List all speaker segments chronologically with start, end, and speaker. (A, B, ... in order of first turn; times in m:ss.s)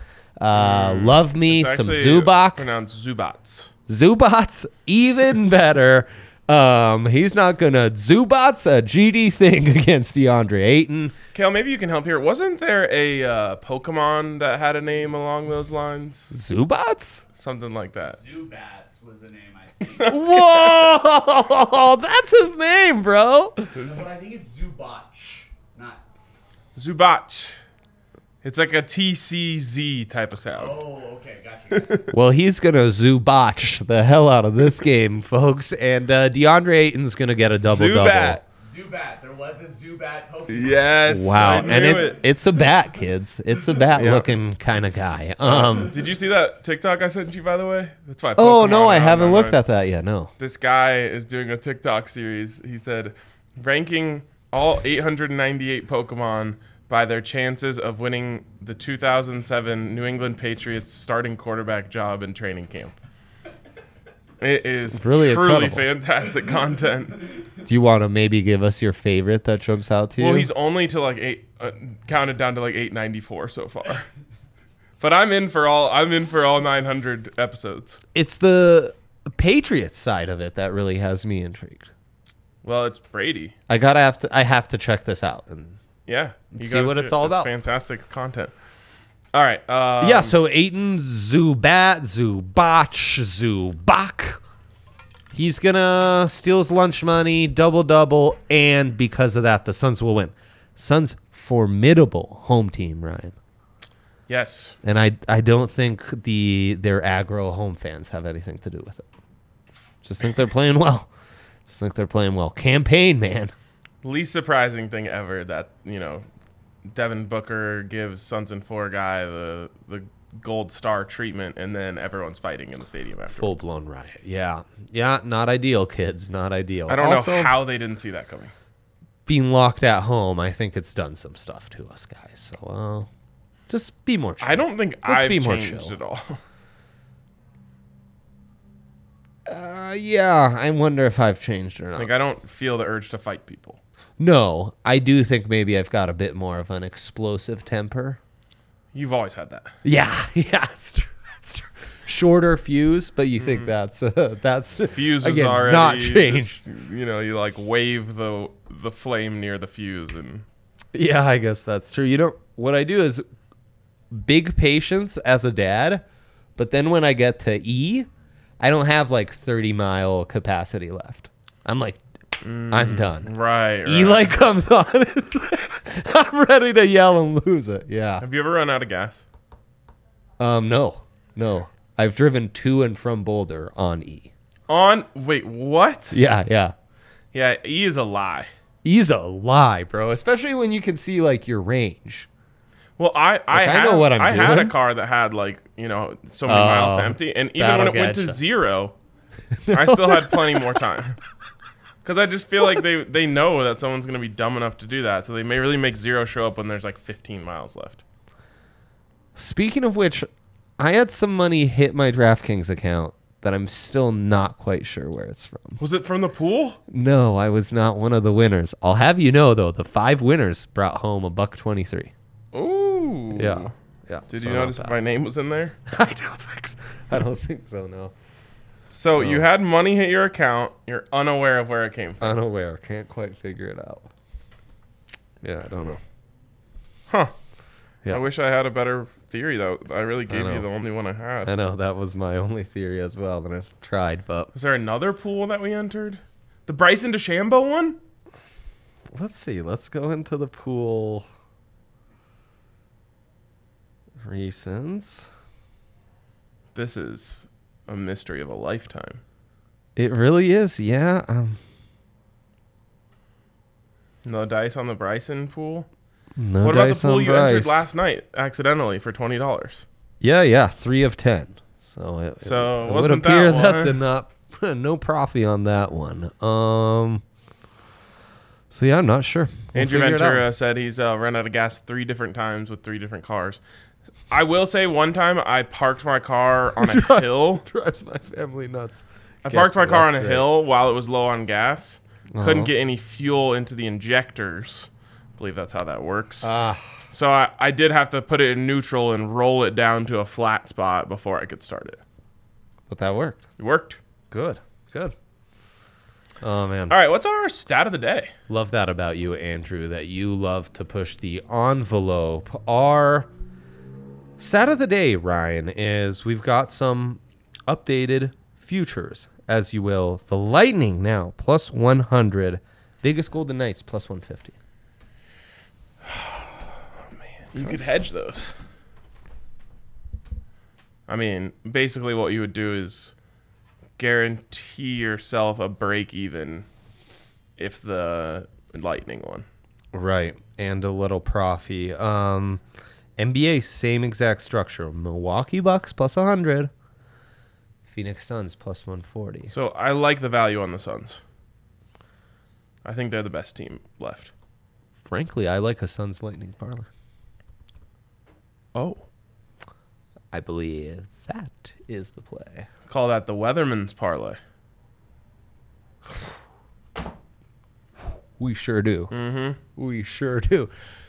0:00.4-0:02.6 A
0:00.5-0:03.7 B
0:03.9-0:11.2 A
0:11.3-0:16.3 B
0:16.3-0:17.2 A
0:17.4-0:18.2 B
0:18.1-0:20.3 C
0:20.0-0:20.8 B
0:20.1-0:23.7 A
0:23.7-0:26.5 C
0:23.8-0:24.0 B
0:26.8-0:27.6 B
0:28.4-0:30.8 B
0:30.5-0:32.0 C
0:31.7-0:32.1 B
0:32.1-0:38.4 A
0:37.6-0:38.4 B
0:38.6-0:42.1 C
0:40.5-0:42.2 B
0:41.1-0:45.9 A
0:44.0-0:44.3 B
0:45.4-0:49.6 B
0:48.4-0:50.3 A
0:50.4-1:02.9 B
1:04.4-1:07.2 B
1:04.7-1:05.9 A
1:07.6-1:10.5 A
1:10.2-1:14.1 B
1:15.0-1:18.0 B
1:18.1-1:21.9 A
1:22.6-1:23.5 B
1:23.7-1:25.8 A
1:26.1-1:28.5 B
1:26.5-1:27.5 A
1:29.3-1:30.3 B
1:30.0-1:34.4 A
1:35.3-1:43.4 A
1:44.3-1:44.8 B
1:44.8-1:49.1 A
1:50.0-1:51.1 A
1:51.7-1:53.5 A
1:54.0-1:56.2 B
1:56.9-2:03.5 B
2:03.4-2:07.6 A
2:06.9-2:08.5 B
2:09.2-2:13.1 A
2:13.7-2:16.0 A
2:14.4-2:16.4 B
2:19.5-2:22.1 A
2:22.0-2:23.8 B
2:24.2-2:28.2 A
2:28.9-2:29.7 B
2:29.8-2:36.6 A
2:33.4-2:33.7 B
2:34.9-2:40.4 B
2:40.9-2:43.2 A
2:44.1-2:46.0 A
2:46.6-2:48.1 A
2:48.6-2:52.0 A
2:52.4-2:54.4 B
2:52.7-2:53.3 A
2:53.8-2:58.2 A
2:58.2-2:59.2 B
3:00.4-3:04.3 A
3:04.7-3:06.2 B
3:06.1-3:06.8 A
3:07.3-3:08.5 B
3:08.8-3:12.3 A
3:13.0-3:18.9 B
3:13.5-3:14.8 A
3:16.5-3:18.4 A
3:19.5-3:20.7 A
3:19.7-3:21.2 B
3:22.0-3:28.0 B
3:29.4-3:35.8 A
3:35.8-3:36.8 B
3:36.9-3:42.1 A
3:42.5-3:43.7 B
3:43.4-3:45.0 A
3:44.3-3:45.8 B
3:45.9-3:48.1 A
3:48.9-3:52.4 B
3:49.2-3:49.4 A
3:52.2-3:54.1 A
3:55.4-3:56.0 A
3:58.1-4:01.5 B
4:00.3-4:00.7 A
4:01.4-4:04.5 A
4:04.5-4:08.0 B
4:09.1-4:11.3 A
4:14.2-4:15.3 A
4:16.8-4:19.2 B
4:20.0-4:21.6 A
4:24.2-4:25.9 B
4:26.4-4:27.9 A
4:26.6-4:29.9 B
4:30.2-4:37.2 A
4:32.4-4:34.0 B
4:38.7-4:40.5 A
4:39.7-4:43.6 B
4:44.3-4:47.6 B
4:46.8-4:50.5 A
4:49.4-4:56.5 B
4:52.3-4:52.7 A
4:56.4-4:56.9 A
4:57.1-5:02.0 B
5:02.9-5:03.4 A
5:03.6-5:04.0 B
5:04.3-5:05.1 A
5:06.4-5:07.0 A
5:06.9-5:08.3 B
5:08.5-5:13.3 A
5:14.4-5:24.5 A
5:26.0-5:26.6 B
5:27.2-5:28.5 B
5:31.1-5:33.1 B
5:34.0-5:36.6 B
5:37.6-5:39.5 B
5:39.9-5:42.6 A
5:43.2-5:46.7 A
5:47.9-5:49.5 A
5:49.5-5:51.2 B
5:52.8-5:54.3 B
5:55.0-5:56.9 A
5:58.8-5:59.0 B
6:00.3-6:02.7 A
6:02.9-6:04.4 B
6:08.4-6:09.1 A
6:09.1-6:09.6 B
6:09.8-6:10.7 A